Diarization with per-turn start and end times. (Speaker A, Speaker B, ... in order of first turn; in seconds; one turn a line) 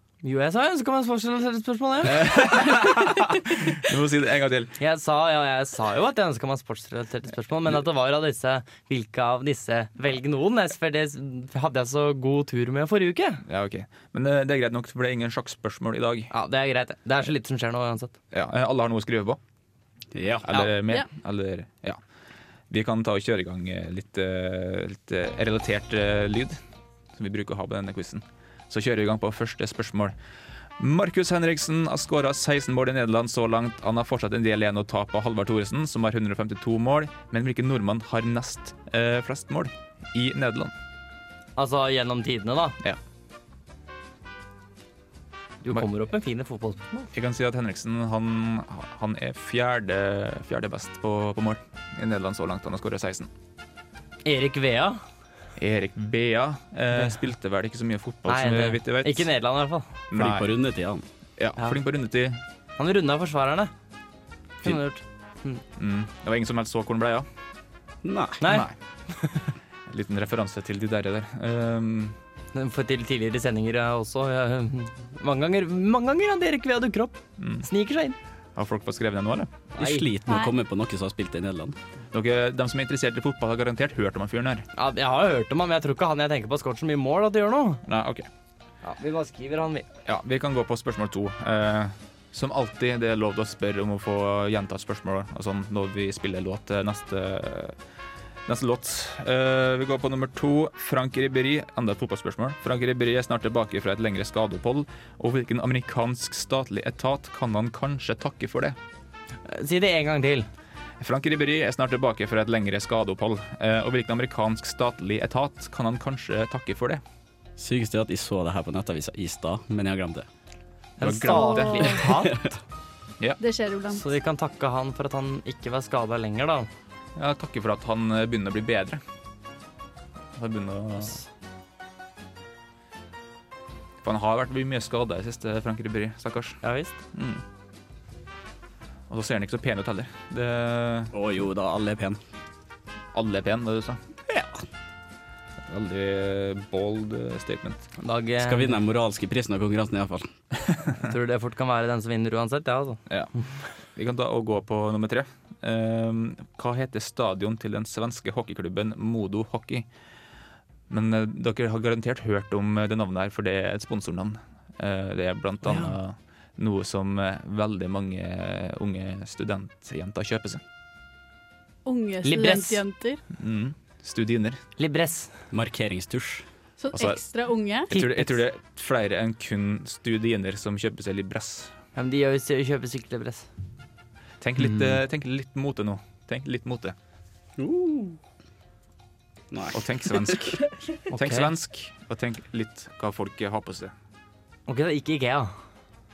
Speaker A: 0.2-2.4
Speaker B: 2.0-4.8
Speaker A: 4.8-13.4
Speaker B: 13.5-16.3
Speaker A: 16.3-18.1
Speaker B: 18.3-19.4
Speaker C: 20.1-20.6
Speaker B: 20.4-22.0
Speaker B: 22.7-26.6
Speaker B: 27.2-30.1
Speaker B: 30.8-40.7
Speaker A: 41.6-42.8
Speaker A: 45.6-47.1
Speaker B: 47.1-53.3
Speaker A: 54.2-55.0
Speaker B: 55.6-59.3
Speaker A: 58.3-59.9
Speaker B: 60.1-60.5
Speaker C: 60.1-61.0
Speaker B: 61.4-62.4
Speaker A: 62.8-63.7
Speaker A: 64.6-65.6
Speaker B: 65.8-67.3
Speaker C: 68.0-68.5
Speaker A: 68.4-69.4
Speaker B: 68.4-68.8
Speaker B: 69.9-72.2
Speaker A: 72.5-78.2
Speaker B: 77.4-77.7
Speaker B: 78.6-79.5
Speaker C: 79.7-81.8
Speaker A: 79.8-80.1
Speaker D: 80.3-80.5
Speaker B: 82.1-84.7
Speaker A: 84.8-87.8
Speaker B: 87.9-88.3
Speaker A: 88.8-89.9
Speaker B: 90.0-97.8
Speaker B: 98.5-108.8
Speaker A: 109.5-110.5
Speaker B: 111.0-117.0
Speaker C: 117.6-120.3
Speaker A: 121.0-122.4
Speaker B: 121.0-122.1
Speaker D: 121.2-122.1
Speaker D: 123.4-124.0
Speaker A: 123.9-126.7
Speaker B: 127.2-129.0
Speaker B: 130.4-131.2
Speaker B: 134.0-136.6
Speaker A: 136.6-136.9
Speaker B: 137.1-137.4
Speaker B: 139.1-141.1
Speaker C: 141.1-142.2
Speaker B: 143.1-144.0
Speaker B: 145.7-147.8
Speaker A: 148.0-148.8
Speaker C: 148.4-150.3
Speaker A: 151.0-153.0
Speaker B: 153.9-159.9
Speaker B: 160.9-170.6
Speaker A: 165.7-165.9
Speaker D: 171.8-173.2
Speaker A: 172.2-172.8
Speaker B: 173.4-174.6
Speaker A: 174.8-175.3
Speaker C: 175.5-176.4
Speaker D: 176.8-177.9
Speaker B: 176.9-177.2
Speaker B: 177.9-181.7
Speaker A: 177.9-178.4
Speaker A: 182.0-183.5
Speaker B: 184.4-186.9
Speaker C: 187.6-188.2
Speaker C: 189.5-190.3
Speaker B: 189.7-193.9
Speaker A: 191.1-191.5
Speaker A: 194.7-195.5